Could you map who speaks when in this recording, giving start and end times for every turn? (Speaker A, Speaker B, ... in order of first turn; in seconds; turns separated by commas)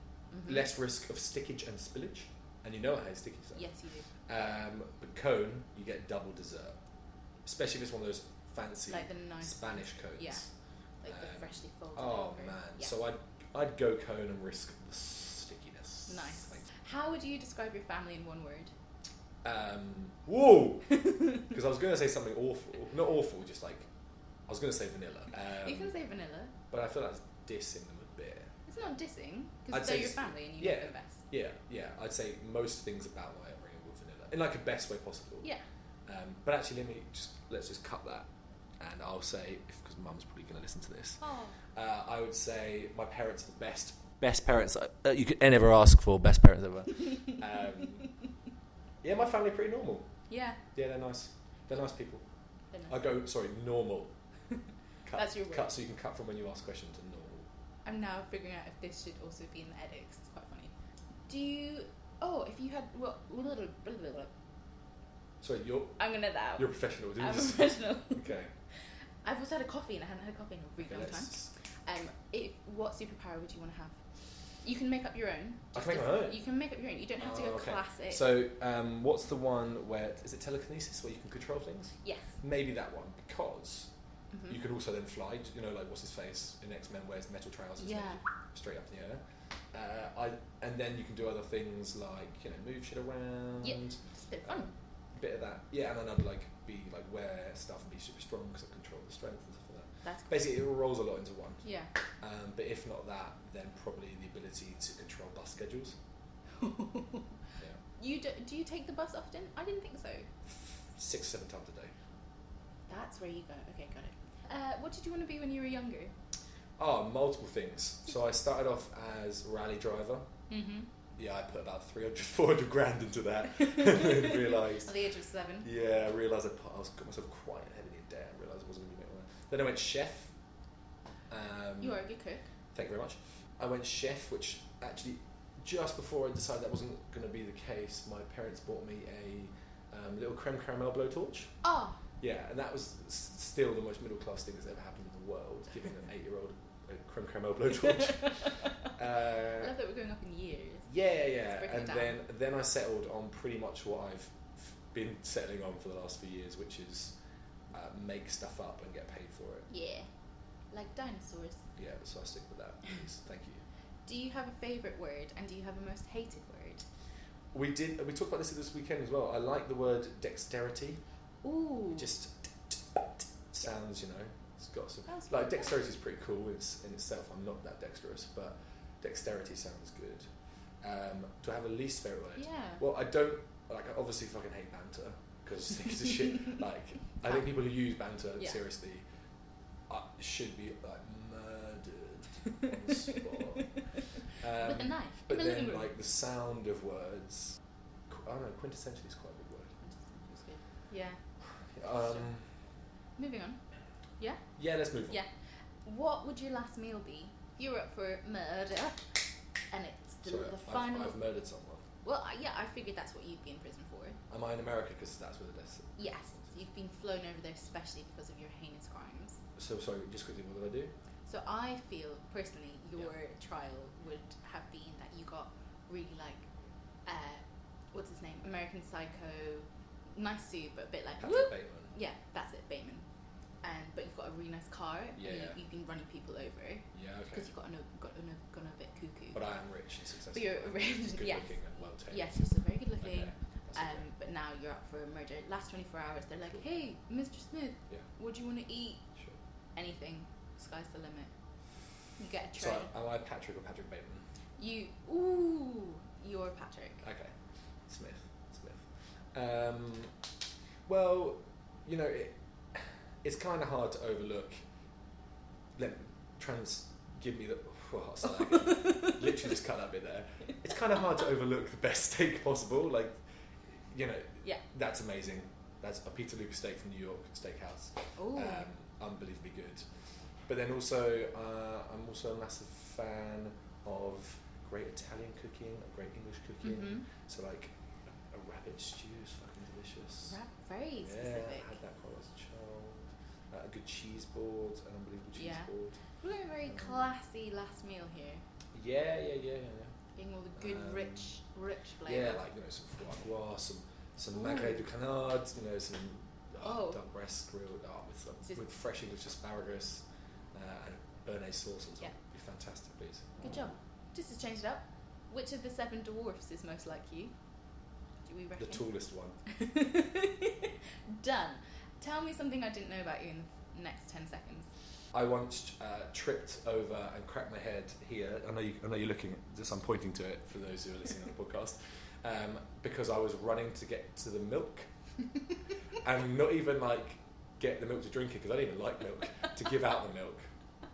Speaker A: 0.3-0.7, Speaker B: 0.5-3.7, Speaker A: 3.5-4.1, Speaker B: 4.3-6.8, Speaker B: 7.5-10.5, Speaker A: 8.9-10.4, Speaker A: 11.0-12.9, Speaker B: 11.1-16.7, Speaker A: 16.1-18.7, Speaker B: 19.4-20.9, Speaker A: 20.9-21.5, Speaker B: 21.5-23.9, Speaker B: 24.5-25.9, Speaker A: 25.6-26.5, Speaker B: 26.7-28.5, Speaker A: 28.7-31.2, Speaker B: 29.7-35.5, Speaker B: 36.1-38.3, Speaker B: 38.8-41.2, Speaker A: 41.2-41.6, Speaker B: 41.8-48.1, Speaker A: 47.0-47.3, Speaker B: 49.0-50.1, Speaker A: 50.3-50.6, Speaker B: 50.8-52.2, Speaker A: 52.7-53.1, Speaker B: 52.9-54.1, Speaker B: 55.0-57.5, Speaker A: 55.1-55.8, Speaker A: 57.9-60.7, Speaker A: 61.3-64.3, Speaker B: 65.4-66.0, Speaker A: 66.0-68.2, Speaker B: 66.5-68.5, Speaker A: 69.2-71.3, Speaker B: 70.8-71.5, Speaker A: 71.9-74.0, Speaker A: 74.6-78.3, Speaker B: 75.7-76.4, Speaker B: 77.2-83.9, Speaker A: 82.0-82.3, Speaker A: 84.3-84.6, Speaker B: 84.5-89.2, Speaker A: 87.8-88.2, Speaker B: 89.7-101.6, Speaker A: 93.6-94.7, Speaker A: 100.0-100.4, Speaker A: 101.6-101.9, Speaker B: 102.2-106.0, Speaker A: 106.6-107.3, Speaker A: 108.0-110.3, Speaker B: 110.5-111.9, Speaker A: 112.9-116.1, Speaker B: 116.8-120.3, Speaker A: 120.5-120.9, Speaker B: 121.2-124.9, Speaker A: 123.6-125.7, Speaker B: 125.6-130.3, Speaker B: 131.3-132.0, Speaker A: 131.8-132.5, Speaker B: 132.7-141.5, Speaker A: 141.6-142.0, Speaker B: 142.2-149.8, Speaker A: 147.8-152.2, Speaker B: 150.9-157.1, Speaker B: 157.7-159.7, Speaker A: 159.7-160.1, Speaker A: 160.7-161.7, Speaker B: 161.8-163.6, Speaker A: 164.1-166.8, Speaker B: 167.5-171.0, Speaker A: 171.4-172.1, Speaker B: 171.9-180.3, Speaker A: 175.1-175.9, Speaker B: 180.8-189.1, Speaker A: 182.4-182.8, Speaker B: 189.9-193.7, Speaker A: 192.9-193.7, Speaker B: 194.4-197.6, Speaker A: 194.6-195.9, Speaker B: 198.1-199.7, Speaker A: 199.8-201.2, Speaker B: 201.7-202.5, Speaker A: 201.9-202.2, Speaker A: 203.2-203.6, Speaker B: 204.6-205.2, Speaker A: 205.8-211.2, Speaker B: 210.2-211.8, Speaker A: 212.0-214.2, Speaker B: 214.3-216.5, Speaker A: 216.0-219.4, Speaker B: 219.6-220.9, Speaker A: 221.3-226.4, Speaker A: 227.1-233.1, Speaker B: 231.2-231.9, Speaker A: 233.6-239.4, Speaker B: 235.2-235.6, Speaker B: 236.9-237.5, Speaker B: 239.3-242.4, Speaker A: 240.3-241.5, Speaker A: 242.1-249.0, Speaker B: 243.0-244.1, Speaker A: 249.8-251.3, Speaker A: 252.2-252.9, Speaker B: 252.6-254.2, Speaker A: 254.6-257.1, Speaker B: 257.0-257.3, Speaker B: 257.9-260.1, Speaker B: 260.9-264.6, Speaker B: 265.8-273.2, Speaker A: 268.4-269.6, Speaker B: 273.9-279.8, Speaker A: 278.2-278.7, Speaker B: 280.5-287.7, Speaker A: 286.6-287.1, Speaker B: 288.3-290.4, Speaker A: 290.3-291.8, Speaker B: 291.0-296.0, Speaker A: 295.4-298.4, Speaker B: 296.7-297.1, Speaker B: 298.7-299.9, Speaker A: 300.2-302.4, Speaker B: 300.6-301.3, Speaker B: 302.1-313.4, Speaker A: 304.3-304.8, Speaker A: 306.6-307.0, Speaker A: 313.4-317.3, Speaker A: 318.3-318.9, Speaker B: 318.6-319.4, Speaker A: 319.5-324.7, Speaker B: 325.1-334.9, Speaker B: 336.0-340.5